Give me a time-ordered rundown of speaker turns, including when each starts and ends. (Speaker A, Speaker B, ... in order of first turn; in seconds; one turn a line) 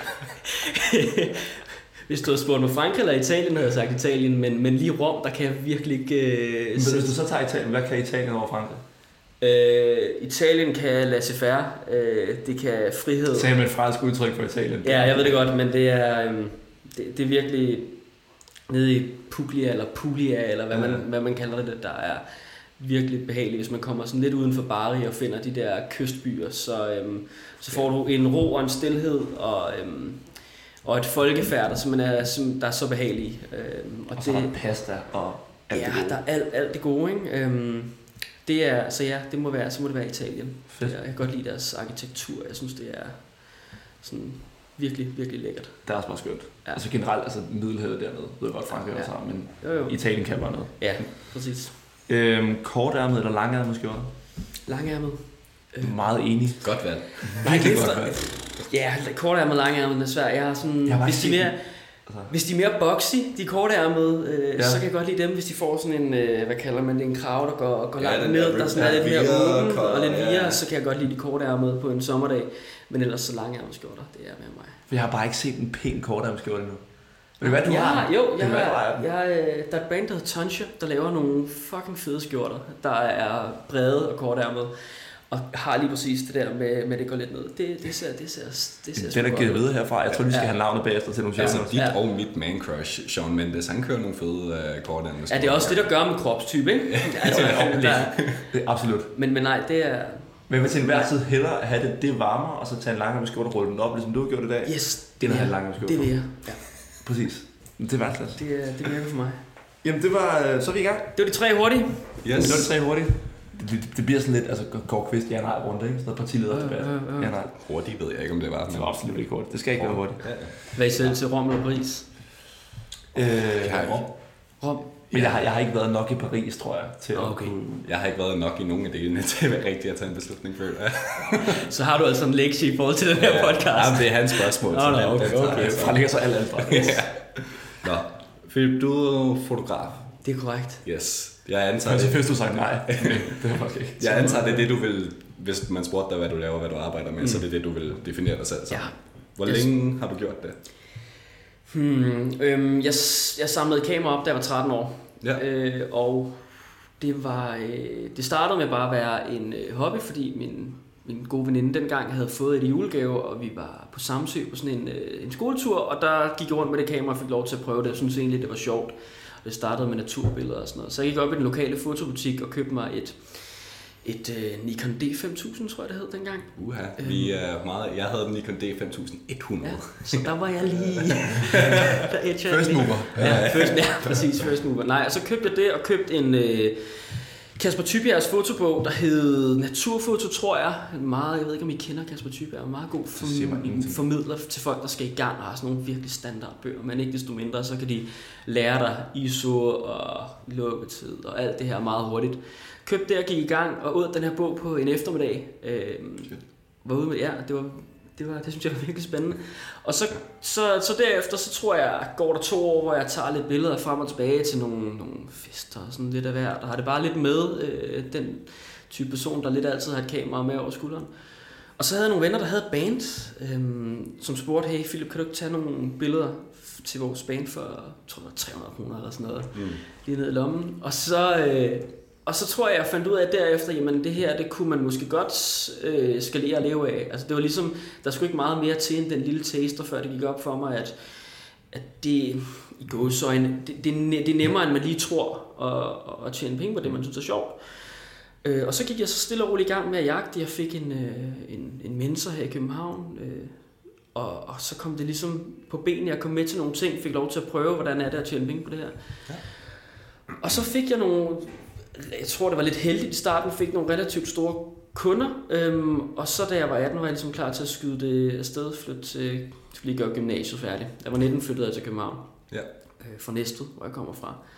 Speaker A: 0.7-7.2
Speaker B: 6.8-8.8
Speaker A: 9.4-13.5
Speaker B: 13.3-15.4
Speaker A: 14.8-34.6
Speaker B: 20.7-21.0
Speaker B: 34.1-36.2
Speaker A: 35.7-46.8
Speaker B: 40.7-41.0
Speaker B: 45.9-51.2
Speaker A: 48.9-51.8
Speaker B: 52.1-54.1
Speaker A: 54.6-56.0
Speaker B: 55.8-58.3
Speaker C: 56.6-57.5
Speaker A: 57.4-74.8
Speaker B: 60.9-62.3
Speaker B: 64.6-64.8
Speaker C: 68.0-70.6
Speaker B: 74.9-79.1
Speaker A: 77.4-92.0
Speaker B: 88.9-91.8
Speaker C: 91.4-96.4
Speaker A: 95.3-98.6
Speaker C: 96.9-98.2
Speaker B: 97.2-99.1
Speaker A: 99.1-101.1
Speaker B: 100.5-108.5
Speaker A: 104.7-106.8
Speaker A: 108.4-109.4
Speaker B: 109.8-111.2
Speaker A: 111.2-112.2
Speaker C: 112.2-112.7
Speaker B: 112.3-117.6
Speaker A: 116.5-117.3
Speaker C: 117.6-119.1
Speaker B: 118.7-120.5
Speaker A: 119.8-122.1
Speaker C: 120.0-121.1
Speaker B: 123.1-124.1
Speaker C: 123.6-124.2
Speaker A: 124.6-124.9
Speaker B: 125.1-127.9
Speaker A: 127.2-127.6
Speaker C: 127.8-131.6
Speaker A: 131.5-135.9
Speaker C: 133.2-140.3
Speaker B: 135.2-137.3
Speaker A: 140.2-140.8
Speaker C: 140.8-143.4
Speaker B: 141.8-144.6
Speaker C: 144.0-150.6
Speaker A: 144.2-144.6
Speaker A: 147.2-147.4
Speaker A: 148.7-149.7
Speaker A: 151.7-177.4
Speaker C: 176.6-181.9
Speaker A: 179.6-221.1
Speaker B: 182.5-183.6
Speaker C: 183.1-184.2
Speaker B: 193.2-194.0
Speaker A: 221.7-259.6
Speaker C: 229.5-229.8
Speaker A: 260.4-272.3
Speaker A: 273.0-274.4